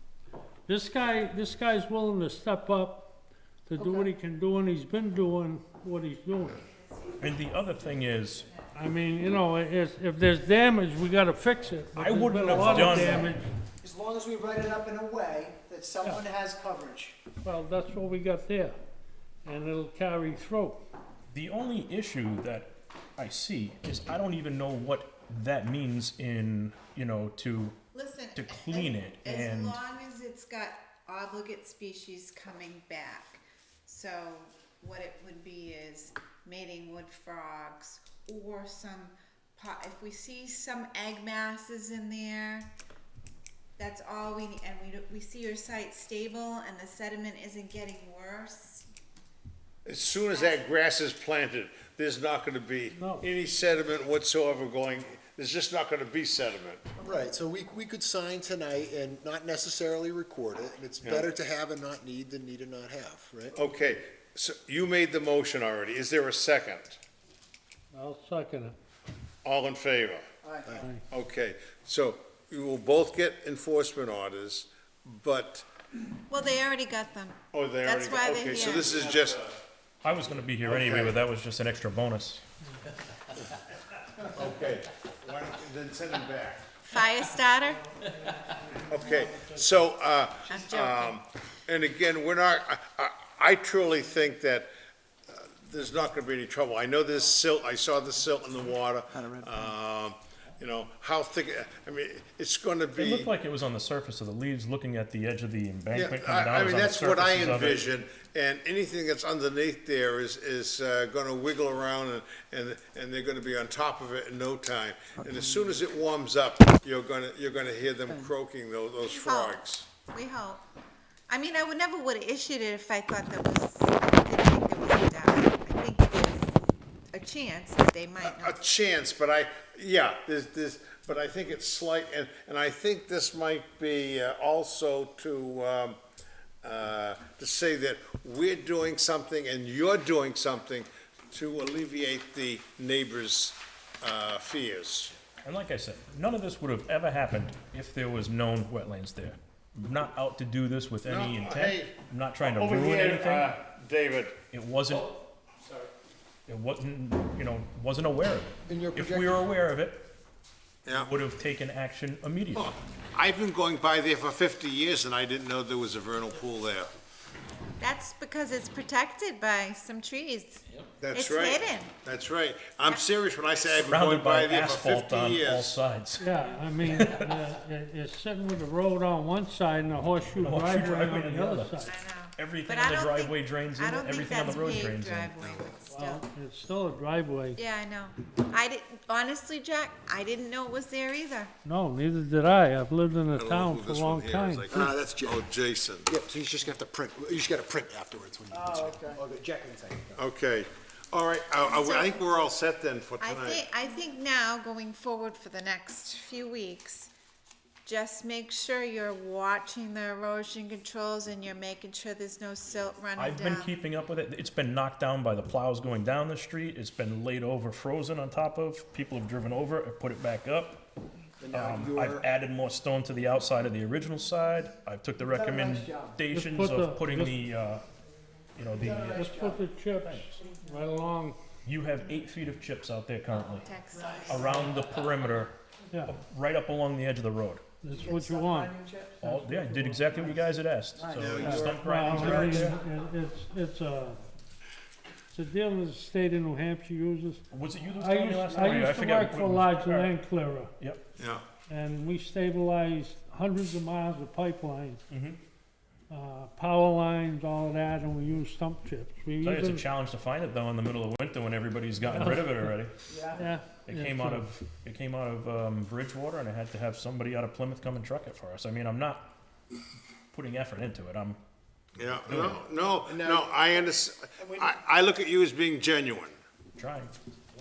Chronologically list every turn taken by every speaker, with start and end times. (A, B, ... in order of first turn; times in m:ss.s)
0:00.7-0:03.1 A
0:03.6-0:06.6 A
0:07.2-0:08.5 B
0:08.7-0:13.5 A
0:11.9-0:13.4 B
0:12.6-0:13.1 C
0:13.8-0:17.2 C
0:17.4-0:18.8 A
0:19.4-0:20.8 A
0:21.3-0:27.8 B
0:27.9-0:42.7 D
0:28.3-0:29.8 B
0:43.8-0:48.8 D
0:49.8-0:56.8 E
0:52.9-0:53.2 A
0:57.0-1:03.6 F
1:01.0-1:01.3 E
1:03.5-1:07.0 E
1:07.9-1:08.8 A
1:09.4-1:10.2 E
1:10.4-1:10.7 C
1:10.8-1:11.0 A
1:11.1-1:15.6 E
1:16.3-1:19.2 D
1:17.5-1:19.6 E
1:20.0-1:22.4 B
1:20.6-1:21.2 E
1:24.3-1:26.8 E
1:26.9-1:27.9 D
1:28.2-1:29.5 A
1:28.9-1:34.7 E
1:30.4-1:31.2 D
1:35.3-1:43.3 E
1:43.0-1:47.8 B
1:45.9-1:59.9 E
1:59.0-1:59.6 D
2:00.1-2:00.6 D
2:01.3-2:06.6 D
2:07.1-2:08.6 D
2:08.2-2:16.0 E
2:16.6-2:25.1 E
2:25.4-2:33.6 B
2:31.0-2:34.4 E
2:34.5-2:35.1 B
2:36.5-2:40.1 B
2:38.7-2:39.5 F
2:40.8-2:41.1 E
2:40.9-2:42.7 B
2:42.5-2:46.9 E
2:47.8-2:51.9 D
2:51.0-2:55.8 E
2:53.8-2:56.2 B
2:56.2-3:02.0 A
3:00.3-3:05.7 B
3:01.8-3:06.2 D
3:05.9-3:07.6 A
3:07.6-3:11.5 D
3:11.6-3:14.7 A
3:13.3-3:16.1 E
3:14.7-3:15.5 F
3:16.0-3:20.2 F
3:18.5-3:19.2 C
3:20.2-3:23.6 E
3:21.6-3:22.2 D
3:23.2-3:27.1 D
3:27.8-3:33.7 D
3:33.2-3:40.9 B
3:41.4-3:42.3 F
3:41.5-3:47.8 B
3:45.3-3:46.2 C
3:46.3-3:47.4 A
3:48.5-3:49.2 B
3:48.8-3:49.6 C
3:49.1-3:51.4 A
3:51.6-3:53.7 B
3:53.3-3:54.6 D
3:54.0-3:54.8 C
3:54.3-3:57.6 B
3:57.8-3:58.8 A
3:57.9-4:00.4 C
3:59.2-4:02.8 B
4:01.0-4:02.6 C
4:01.1-4:01.6 E
4:01.4-4:04.2 A
4:02.2-4:02.6 E
4:05.3-4:07.4 A
4:07.5-4:10.2 B
4:08.0-4:10.7 A
4:10.8-4:11.0 B
4:11.2-4:11.4 E
4:11.7-4:15.0 A
4:15.1-4:15.4 B
4:16.1-4:19.8 A
4:19.4-4:22.9 B
4:22.1-4:22.5 A
4:23.1-4:23.5 C
4:23.3-4:24.4 A
4:23.8-4:29.3 B
4:30.3-4:31.4 B
4:32.0-4:36.4 E
4:32.2-4:32.6 B
4:33.1-4:33.5 F
4:34.4-4:34.7 C
4:36.8-4:37.1 B